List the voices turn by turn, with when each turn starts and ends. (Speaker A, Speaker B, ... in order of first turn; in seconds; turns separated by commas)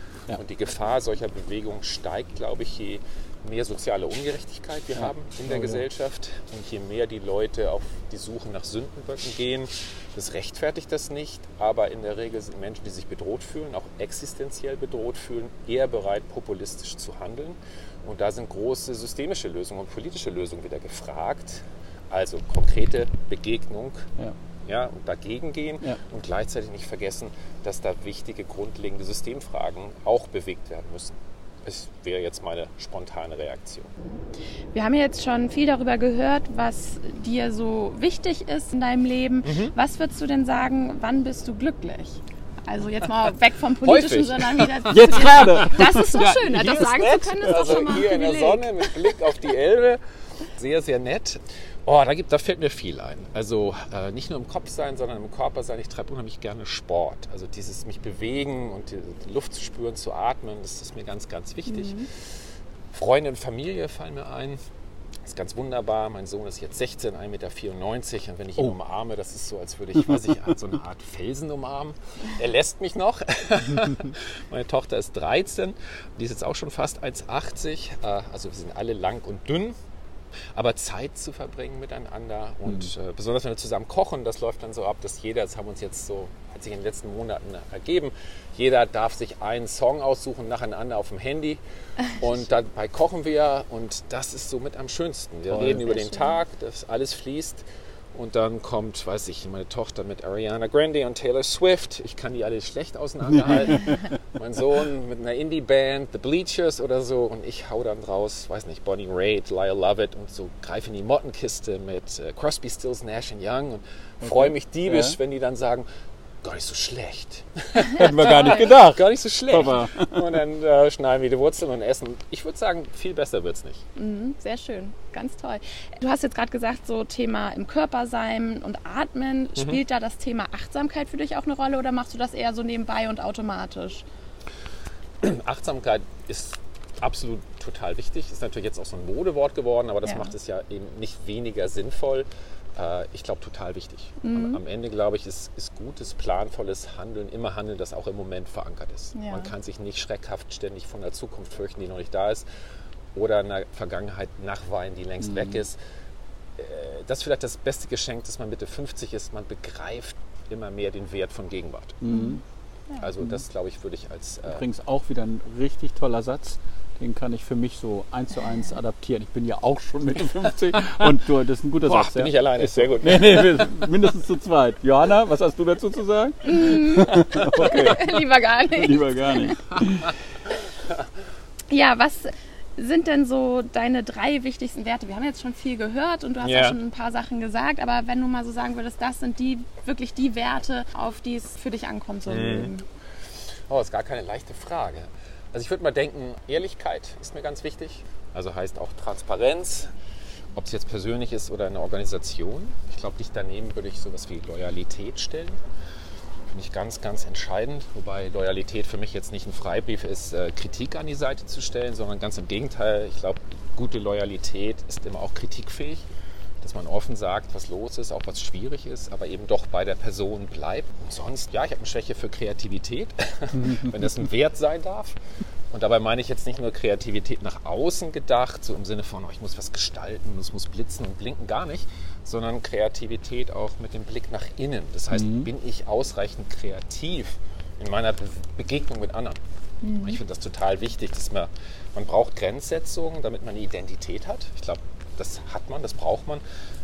Speaker A: 0.3-24.0, Speaker B: 4.9-5.8, Speaker A: 24.6-33.9, Speaker C: 34.7-49.0, Speaker A: 39.4-39.7, Speaker A: 43.8-50.0, Speaker B: 44.9-46.1, Speaker B: 47.5-47.9, Speaker A: 50.5-62.1, Speaker C: 61.7-62.0, Speaker A: 62.9-64.6, Speaker A: 65.2-79.7, Speaker A: 80.5-91.6, Speaker A: 92.2-115.8, Speaker B: 95.5-96.1, Speaker B: 103.3-103.6, Speaker B: 114.2-115.2, Speaker A: 116.4-123.8, Speaker B: 117.9-120.3, Speaker C: 124.0-134.0, Speaker A: 135.2-152.4, Speaker C: 140.0-140.3, Speaker C: 144.2-144.6, Speaker C: 149.1-149.5, Speaker A: 153.1-155.8, Speaker B: 155.2-155.6, Speaker A: 156.6-162.0, Speaker B: 162.0-162.4, Speaker C: 162.1-162.3, Speaker A: 163.0-164.6, Speaker B: 164.5-180.1, Speaker A: 171.8-173.6, Speaker C: 176.4-179.6, Speaker C: 181.7-192.8, Speaker A: 186.4-186.8, Speaker A: 192.3-192.7, Speaker A: 193.7-199.9, Speaker A: 200.5-205.6, Speaker A: 206.5-216.0, Speaker A: 216.6-225.2, Speaker B: 223.5-224.1, Speaker A: 225.7-239.4, Speaker B: 235.1-235.5, Speaker C: 239.8-240.2, Speaker A: 240.0-246.4